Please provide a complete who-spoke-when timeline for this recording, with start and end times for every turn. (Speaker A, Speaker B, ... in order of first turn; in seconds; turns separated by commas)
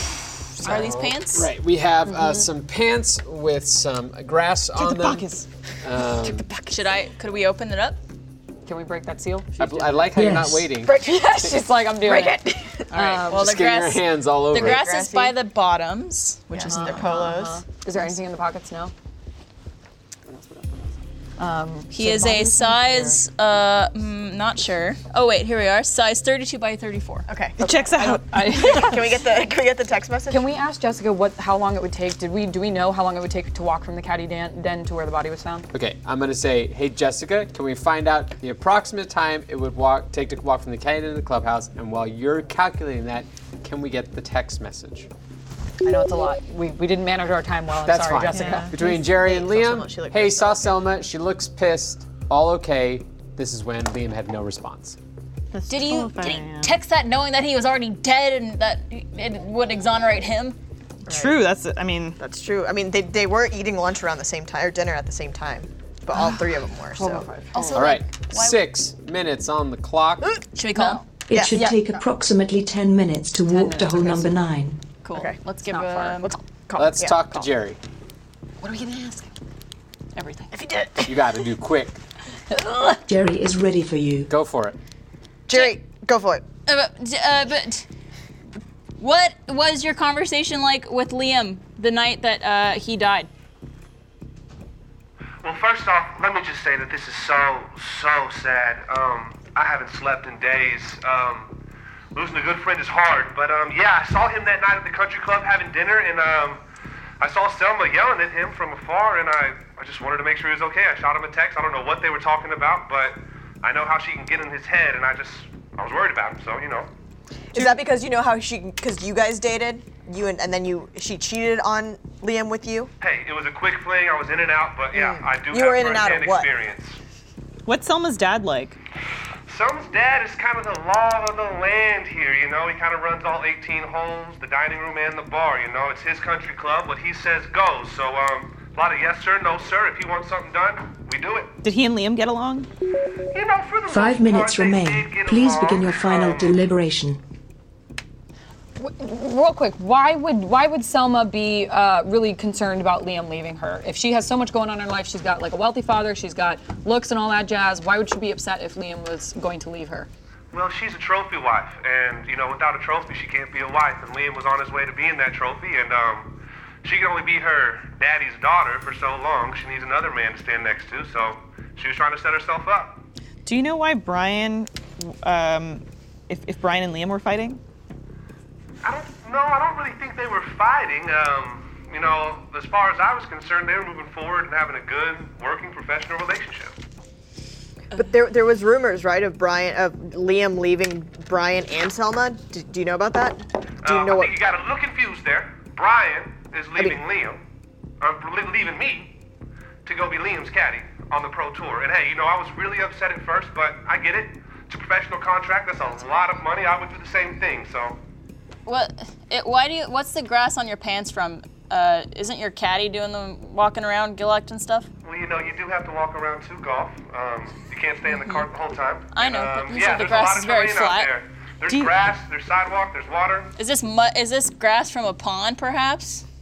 Speaker A: 0.6-5.3, Speaker B: 0.6-1.5, Speaker C: 0.6-0.9, Speaker C: 2.0-2.5, Speaker D: 4.7-5.5, Speaker A: 5.8-6.5, Speaker B: 6.7-8.0, Speaker C: 8.7-10.1, Speaker A: 9.6-11.0, Speaker E: 10.1-10.7, Speaker C: 10.8-13.4, Speaker B: 12.9-17.1, Speaker A: 13.3-14.9, Speaker C: 14.8-15.3, Speaker F: 16.5-17.2, Speaker C: 16.6-18.9, Speaker D: 16.9-17.6, Speaker C: 21.4-23.2, Speaker B: 21.9-27.3, Speaker F: 27.3-27.6, Speaker D: 27.6-29.0, Speaker C: 27.6-29.3, Speaker F: 28.5-30.4, Speaker C: 30.3-35.7, Speaker A: 35.7-45.1, Speaker C: 45.8-48.8, Speaker A: 47.8-55.0, Speaker D: 48.3-48.7, Speaker F: 48.7-50.8, Speaker D: 55.5-56.8, Speaker B: 55.7-60.6, Speaker F: 61.1-61.4, Speaker D: 61.1-62.2, Speaker F: 62.2-67.3, Speaker C: 66.1-68.0, Speaker B: 67.5-68.7, Speaker A: 67.7-70.3, Speaker B: 70.6-71.0, Speaker C: 70.7-71.9, Speaker E: 71.3-74.8, Speaker C: 73.5-74.3, Speaker B: 75.0-76.4, Speaker C: 75.6-77.5, Speaker F: 76.2-77.2, Speaker A: 76.8-77.8, Speaker C: 78.6-79.3, Speaker B: 80.1-80.5, Speaker F: 80.5-81.2, Speaker A: 81.0-82.0, Speaker C: 82.5-83.0, Speaker E: 83.1-84.3, Speaker A: 84.3-84.8, Speaker F: 85.5-86.4, Speaker B: 85.5-85.8, Speaker B: 86.7-87.9, Speaker B: 89.0-93.3, Speaker G: 95.4-101.5, Speaker G: 102.1-106.6, Speaker G: 107.2-116.9, Speaker F: 117.5-122.9, Speaker D: 117.5-117.8, Speaker G: 123.0-127.0, Speaker F: 124.9-126.5, Speaker D: 127.7-128.8, Speaker G: 129.5-141.6, Speaker D: 141.6-142.7, Speaker G: 143.3-146.6, Speaker E: 143.9-147.2, Speaker C: 148.8-160.1, Speaker G: 160.5-166.3, Speaker G: 166.8-173.0, Speaker D: 173.4-177.6, Speaker G: 178.8-186.7, Speaker F: 187.9-194.3, Speaker G: 193.8-197.4, Speaker G: 198.0-199.1, Speaker G: 199.8-208.0, Speaker B: 208.7-214.9, Speaker G: 215.0-223.5, Speaker B: 218.0-218.5, Speaker B: 219.1-221.1, Speaker D: 221.7-222.1, Speaker B: 223.6-226.2